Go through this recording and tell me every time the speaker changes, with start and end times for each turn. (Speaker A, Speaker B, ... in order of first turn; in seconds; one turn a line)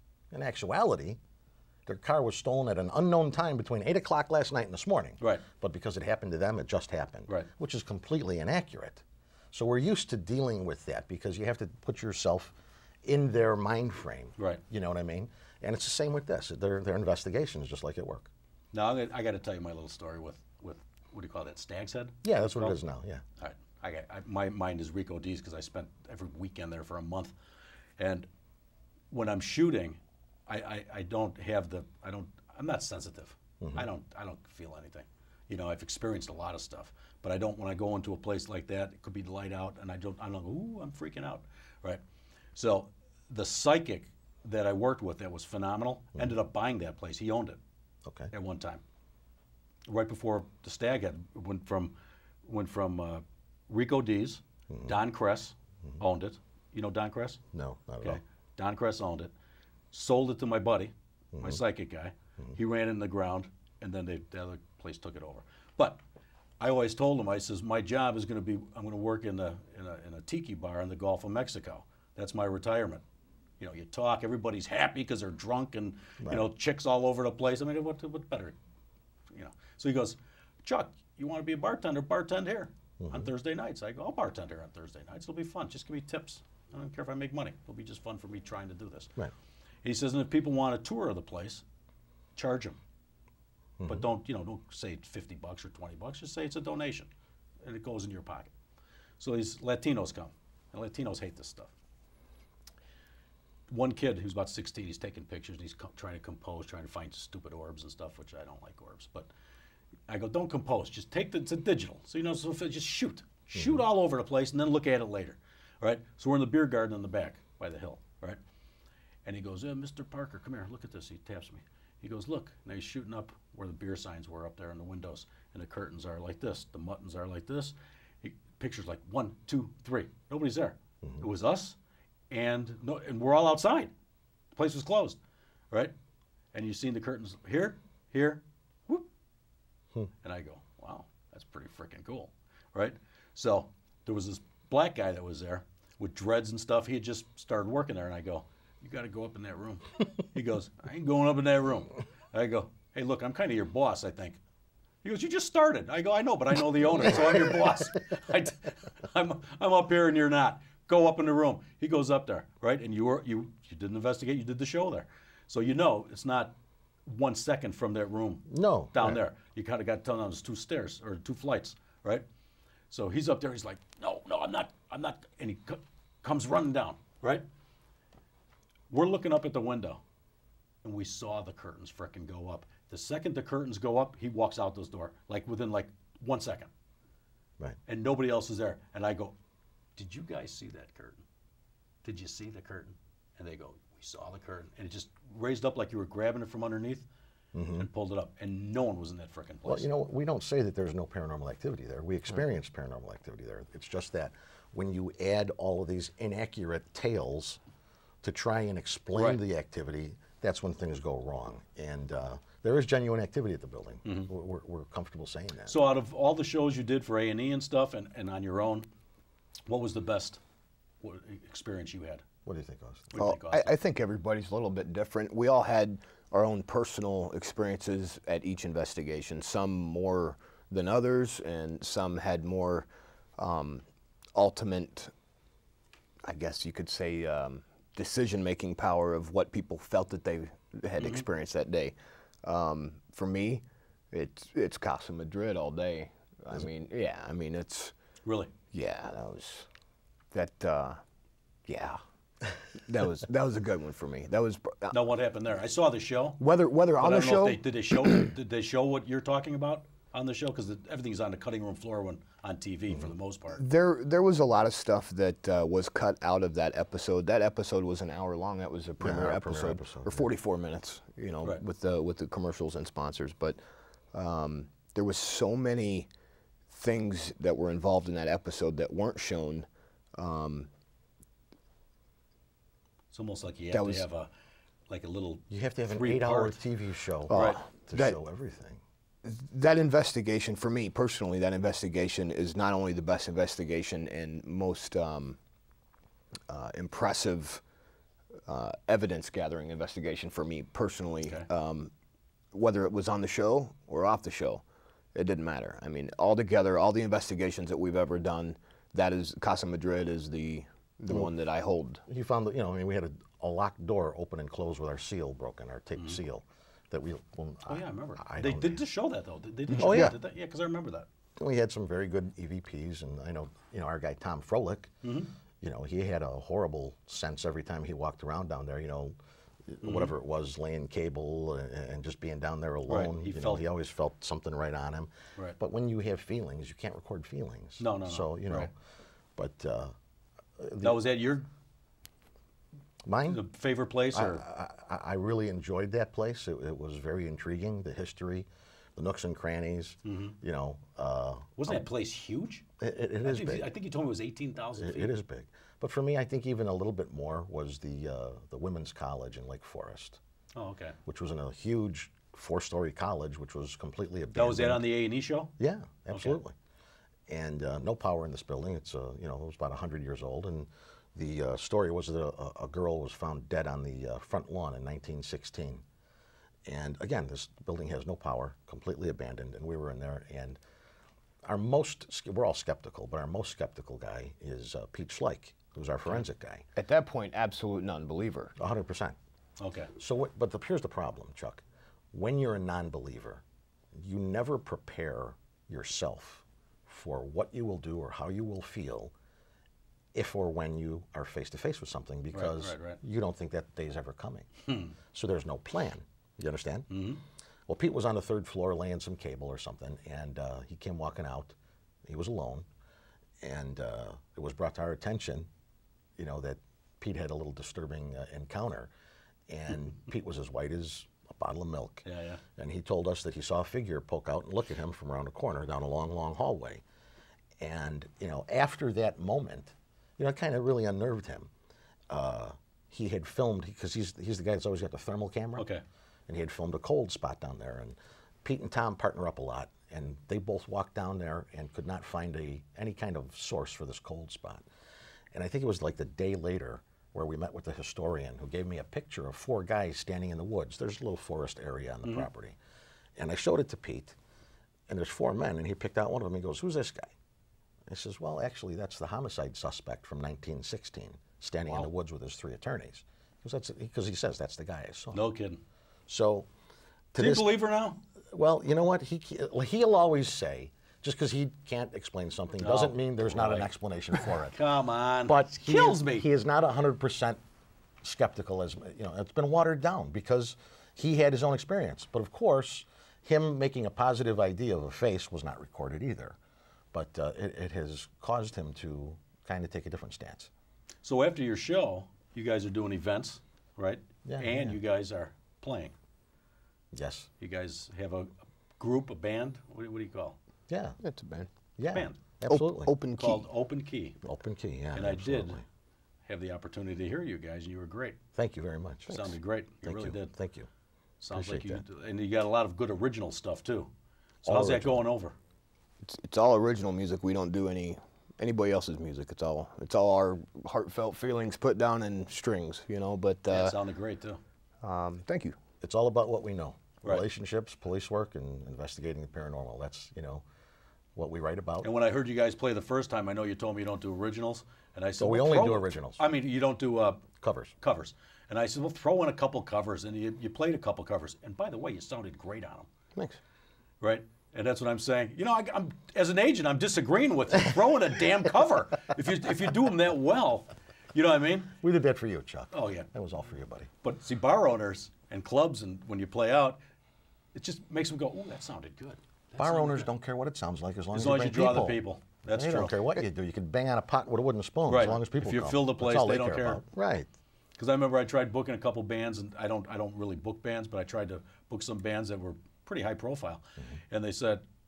Speaker A: 0.3-1.2
Speaker A: 1.9-18.3
Speaker B: 5.2-5.4
Speaker B: 14.4-14.6
Speaker B: 18.7-22.8
Speaker A: 22.2-23.2
Speaker B: 23.4-27.3
Speaker B: 28.0-28.3
Speaker B: 29.1-42.0
Speaker A: 33.6-33.9
Speaker B: 42.5-47.6
Speaker A: 48.0-48.3
Speaker B: 48.3-48.8
Speaker B: 49.9-57.4
Speaker A: 54.7-55.0
Speaker A: 57.5-58.2
Speaker B: 58.0-59.3
Speaker B: 59.9-66.0
Speaker A: 61.3-61.6
Speaker B: 66.6-73.0
Speaker B: 73.6-78.5
Speaker B: 79.3-89.1
Speaker A: 83.0-83.3
Speaker B: 89.8-91.6
Speaker B: 92.3-92.8
Speaker A: 93.8-94.0
Speaker B: 93.8-97.1
Speaker B: 97.6-98.5
Speaker B: 99.2-101.7
Speaker B: 103.7-109.3
Speaker B: 110.1-118.4
Speaker A: 113.6-113.8
Speaker B: 119.2-131.8
Speaker B: 132.3-133.9
Speaker B: 134.5-135.2
Speaker B: 136.5-139.1
Speaker B: 140.2-154.4
Speaker B: 155.0-166.5
Speaker B: 167.1-172.2
Speaker A: 168.5-169.2
Speaker B: 172.9-177.4
Speaker B: 178.9-180.0
Speaker B: 180.8-186.7
Speaker B: 187.9-189.3
Speaker B: 189.9-191.2
Speaker B: 192.0-197.0
Speaker A: 197.5-197.9
Speaker B: 197.8-199.9
Speaker A: 199.6-207.6
Speaker A: 208.2-215.8
Speaker B: 209.1-209.4
Speaker B: 214.0-214.3
Speaker B: 215.7-218.9
Speaker B: 219.7-220.4
Speaker B: 221.0-222.2
Speaker A: 222.4-223.2
Speaker B: 223.1-223.8
Speaker C: 223.2-232.9
Speaker C: 233.4-233.8
Speaker C: 234.3-235.1
Speaker C: 236.2-247.9
Speaker B: 241.0-241.2
Speaker B: 248.2-248.5
Speaker C: 248.7-249.7
Speaker C: 250.3-251.0
Speaker C: 251.7-252.0
Speaker C: 252.7-255.0
Speaker B: 254.9-256.4
Speaker C: 256.4-258.3
Speaker B: 257.0-263.6
Speaker C: 263.5-273.6
Speaker A: 269.0-270.3
Speaker C: 274.1-276.1
Speaker C: 276.7-280.7
Speaker B: 283.1-284.3
Speaker C: 283.7-284.1
Speaker B: 284.9-286.6
Speaker A: 285.5-288.8
Speaker C: 287.3-288.2
Speaker B: 287.3-287.6
Speaker C: 289.2-295.4
Speaker C: 296.5-297.6
Speaker C: 298.4-301.9
Speaker C: 302.5-304.6
Speaker C: 305.1-312.0
Speaker A: 312.1-318.8
Speaker B: 317.7-321.1
Speaker A: 319.7-320.2
Speaker A: 321.4-324.9
Speaker B: 325.0-325.3
Speaker A: 325.6-329.1
Speaker A: 329.7-338.7
Speaker B: 329.8-330.1
Speaker B: 332.9-333.6
Speaker B: 337.8-338.7
Speaker A: 339.4-339.9
Speaker A: 340.6-341.0
Speaker B: 340.8-341.5
Speaker A: 343.0-343.4
Speaker B: 343.3-344.4
Speaker A: 344.1-351.8
Speaker B: 350.0-350.4
Speaker B: 351.6-352.6
Speaker A: 352.8-353.7
Speaker B: 353.2-355.1
Speaker A: 354.8-360.2
Speaker B: 360.6-360.9
Speaker A: 361.1-364.9
Speaker B: 364.3-365.5
Speaker A: 365.6-366.5
Speaker B: 366.1-366.4
Speaker A: 367.3-375.8
Speaker A: 376.6-380.6
Speaker A: 381.4-386.6
Speaker C: 386.7-388.5
Speaker A: 388.6-389.1
Speaker B: 389.6-389.9
Speaker A: 389.9-393.4
Speaker A: 393.9-399.1
Speaker A: 400.1-404.5
Speaker B: 402.3-403.0
Speaker B: 404.6-404.9
Speaker A: 405.1-406.9
Speaker B: 406.9-407.2
Speaker A: 407.7-411.5
Speaker A: 412.1-412.6
Speaker A: 413.4-415.5
Speaker A: 416.2-418.9
Speaker A: 419.5-422.0
Speaker B: 422.0-422.4
Speaker A: 422.6-426.8
Speaker A: 427.6-431.5
Speaker A: 432.1-435.7
Speaker B: 435.6-435.8
Speaker A: 436.3-444.6
Speaker A: 445.3-452.6
Speaker B: 452.0-452.3
Speaker A: 453.2-454.1
Speaker A: 454.9-457.1
Speaker A: 457.9-465.2
Speaker B: 465.1-465.6
Speaker A: 466.1-466.5
Speaker A: 467.1-467.6
Speaker B: 467.2-468.0
Speaker A: 468.3-474.6
Speaker B: 472.6-473.7
Speaker B: 474.5-476.2
Speaker A: 475.2-477.4
Speaker A: 478.0-486.4
Speaker A: 486.9-490.5
Speaker B: 491.0-495.9
Speaker A: 494.2-494.8
Speaker A: 496.9-497.3
Speaker B: 497.4-500.4
Speaker A: 500.7-501.0
Speaker C: 501.0-501.5
Speaker A: 501.8-502.9
Speaker B: 501.9-502.2
Speaker C: 502.5-503.4
Speaker B: 503.2-504.2
Speaker A: 504.2-505.6
Speaker B: 504.9-505.6
Speaker B: 506.2-508.2
Speaker A: 508.4-510.7
Speaker B: 509.1-510.3
Speaker B: 511.2-513.9
Speaker A: 511.3-511.8
Speaker B: 514.4-515.3
Speaker A: 514.4-515.0
Speaker C: 516.0-523.8
Speaker B: 523.5-524.4
Speaker C: 524.8-525.5
Speaker A: 525.8-530.4
Speaker A: 531.1-531.9
Speaker B: 531.8-537.2
Speaker A: 535.2-536.2
Speaker A: 537.4-537.7
Speaker B: 537.8-542.9
Speaker B: 544.0-551.7
Speaker A: 551.8-553.9
Speaker B: 552.7-553.1
Speaker B: 554.0-556.8
Speaker B: 557.5-560.1
Speaker A: 559.6-567.3
Speaker B: 561.1-563.0
Speaker B: 564.9-566.8
Speaker B: 567.8-574.6